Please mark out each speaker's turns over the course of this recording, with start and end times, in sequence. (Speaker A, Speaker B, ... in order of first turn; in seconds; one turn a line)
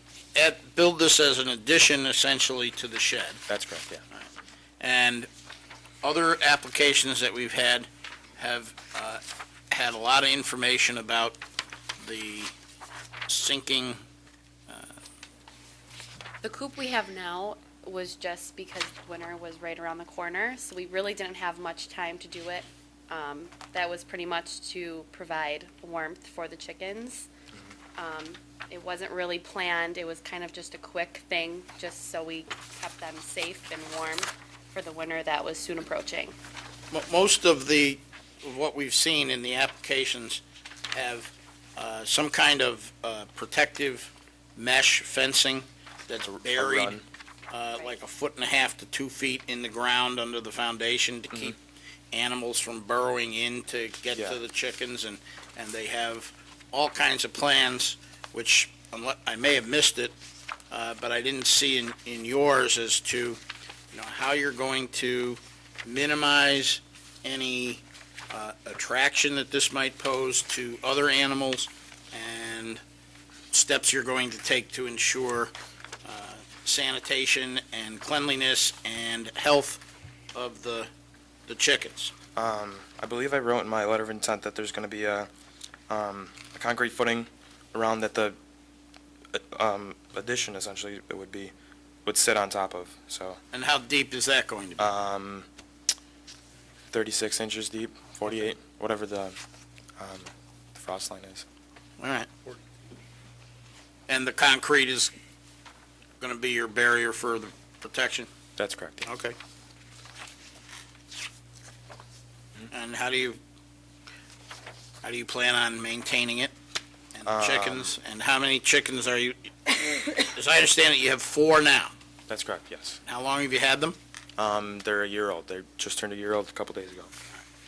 Speaker A: 0.3-3.4
Speaker B: 3.5-4.0
Speaker A: 4.8-5.3
Speaker A: 6.0-11.4
Speaker A: 12.0-12.5
Speaker A: 13.3-14.0
Speaker A: 14.7-14.9
Speaker C: 16.4-27.3
Speaker C: 27.9-36.4
Speaker A: 36.9-40.4
Speaker A: 40.9-47.0
Speaker B: 46.2-47.0
Speaker A: 47.5-51.6
Speaker A: 52.1-60.1
Speaker A: 60.7-63.4
Speaker A: 63.9-72.8
Speaker A: 73.5-75.5
Speaker A: 76.0-79.8
Speaker A: 80.3-80.9
Speaker A: 81.5-82.1
Speaker B: 82.3-85.3
Speaker B: 85.9-88.4
Speaker B: 89.3-91.5
Speaker B: 92.0-93.4
Speaker A: 93.5-94.9
Speaker B: 94.8-95.5
Speaker B: 96.9-99.4
Speaker B: 100.0-101.4
Speaker A: 102.0-102.5
Speaker A: 104.1-105.1
Speaker A: 106.2-108.3
Speaker B: 108.6-109.0
Speaker A: 109.0-109.3
Speaker A: 112.7-113.4
Speaker A: 115.0-116.5
Speaker A: 117.1-121.9
Speaker B: 117.2-117.9
Speaker B: 122.3-123.0
Speaker A: 123.0-124.0
Speaker B: 124.4-127.1